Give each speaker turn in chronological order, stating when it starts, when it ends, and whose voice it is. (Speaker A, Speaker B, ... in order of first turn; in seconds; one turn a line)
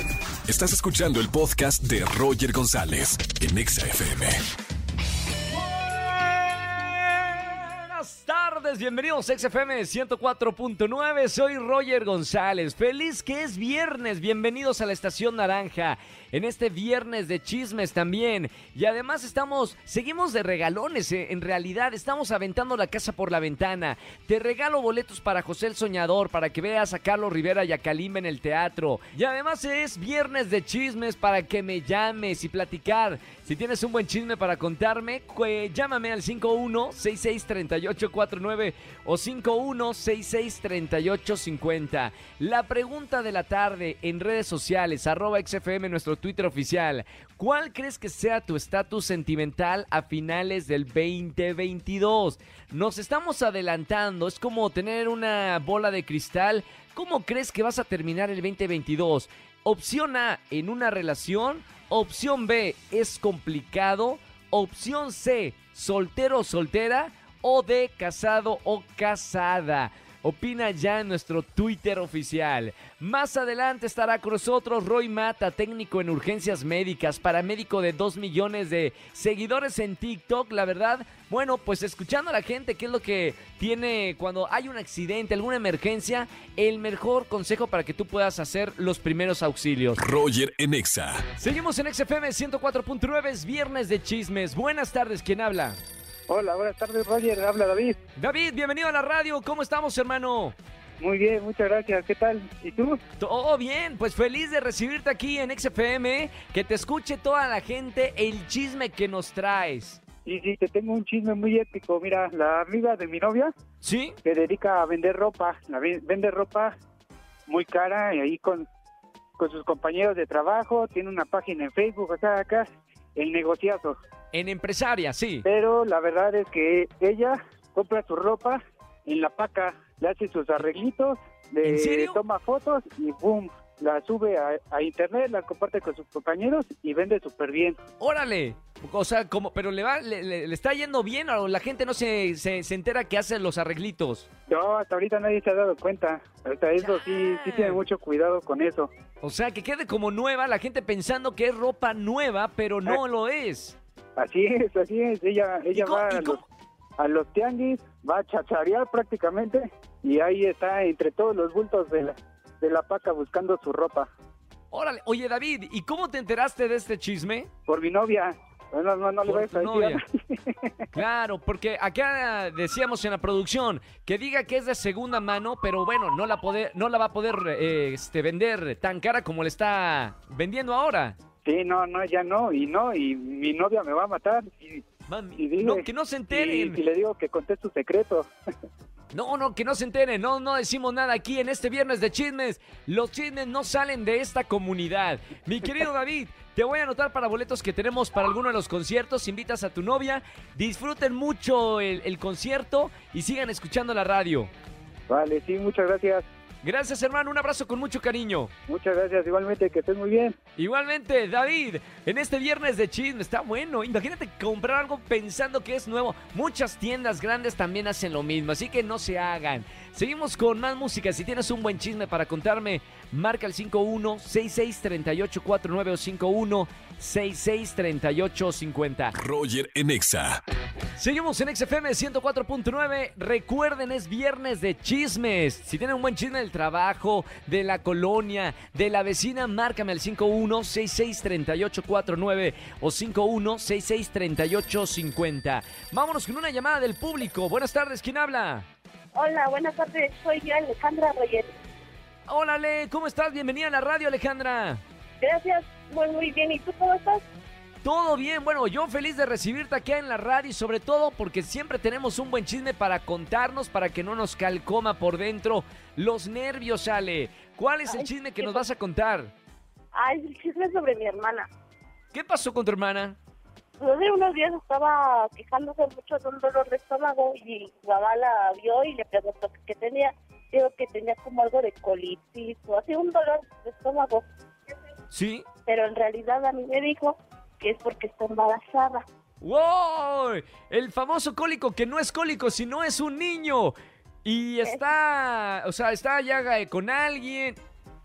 Speaker A: 0.5-4.4
Speaker B: 5.6-90.0
Speaker A: 90.0-91.2
Speaker B: 91.4-95.8
Speaker C: 96.3-98.0
Speaker B: 98.2-100.6
Speaker C: 101.0-103.0
Speaker B: 103.2-110.0
Speaker C: 110.2-113.5
Speaker B: 113.8-114.2
Speaker C: 114.2-116.7
Speaker C: 117.5-118.7
Speaker C: 119.4-124.0
Speaker B: 124.3-125.5
Speaker C: 125.5-137.8
Speaker B: 131.6-132.2
Speaker B: 138.0-144.3
Speaker C: 144.5-148.9
Speaker B: 146.8-147.8
Speaker B: 149.2-153.8
Speaker C: 154.2-156.4
Speaker B: 155.7-156.5
Speaker C: 157.0-164.1
Speaker B: 164.7-167.5
Speaker C: 167.7-170.7
Speaker B: 169.2-170.0
Speaker B: 170.9-181.2
Speaker C: 181.4-184.8
Speaker B: 185.1-186.8
Speaker C: 185.3-188.3
Speaker B: 189.1-204.5
Speaker C: 205.1-206.2
Speaker B: 206.6-208.5
Speaker C: 208.7-210.3
Speaker B: 210.6-229.2
Speaker A: 229.2-230.2
Speaker B: 231.0-248.7
Speaker D: 249.1-251.5
Speaker B: 252.3-254.8
Speaker D: 255.2-257.2
Speaker B: 257.8-269.3
Speaker D: 267.9-268.6
Speaker D: 269.9-271.5
Speaker B: 272.1-273.2
Speaker D: 273.8-284.3
Speaker B: 285.1-285.4
Speaker D: 285.7-289.1
Speaker B: 289.4-297.6
Speaker D: 294.6-294.9